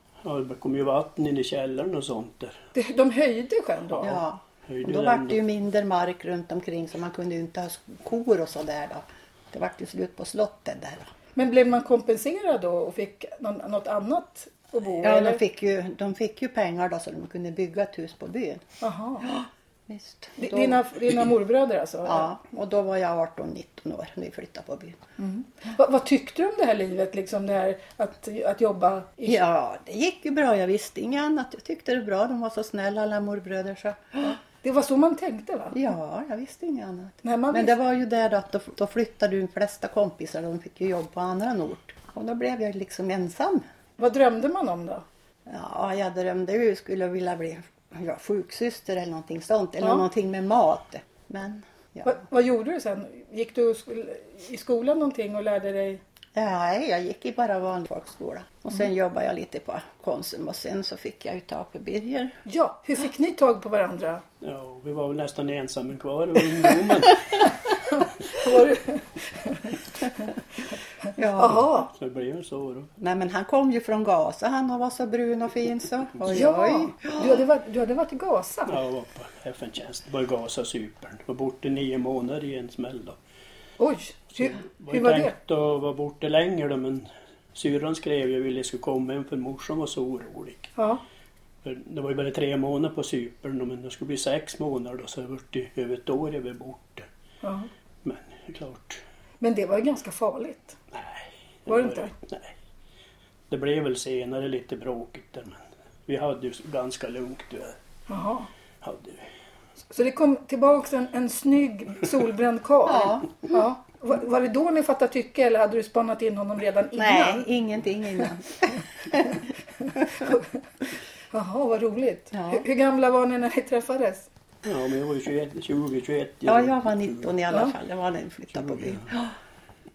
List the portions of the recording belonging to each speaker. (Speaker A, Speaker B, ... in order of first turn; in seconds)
Speaker A: 0.2-2.6, 4.0-5.4, 64.4-67.5, 71.9-72.9, 78.7-83.2, 84.4-90.7, 91.6-97.0, 98.0-99.0, 100.9-102.5, 103.5-107.8, 108.8-109.3, 124.6-127.3, 128.5-129.1
Speaker B: 2.8-4.1, 11.3-15.4, 18.8-19.3, 20.4-22.3, 25.2-29.4, 34.5-35.8, 37.2-37.8, 44.0-45.0, 52.0-56.0, 62.5-64.2, 67.9-70.4, 71.0-71.9, 76.3-78.8, 83.8-85.3, 97.4-97.7, 99.4-100.8, 101.7-102.1, 108.1-108.5, 109.9-117.5, 118.6-120.6, 121.3-124.3
Speaker C: 4.0-11.1, 15.0-18.6, 19.2-21.2, 22.0-25.0, 29.2-34.4, 35.7-43.6, 45.5-52.2, 56.3-62.3, 71.2-71.7, 73.0-77.4, 112.8-113.5, 117.0-119.4, 120.0-120.3, 122.3-122.7, 126.5-129.3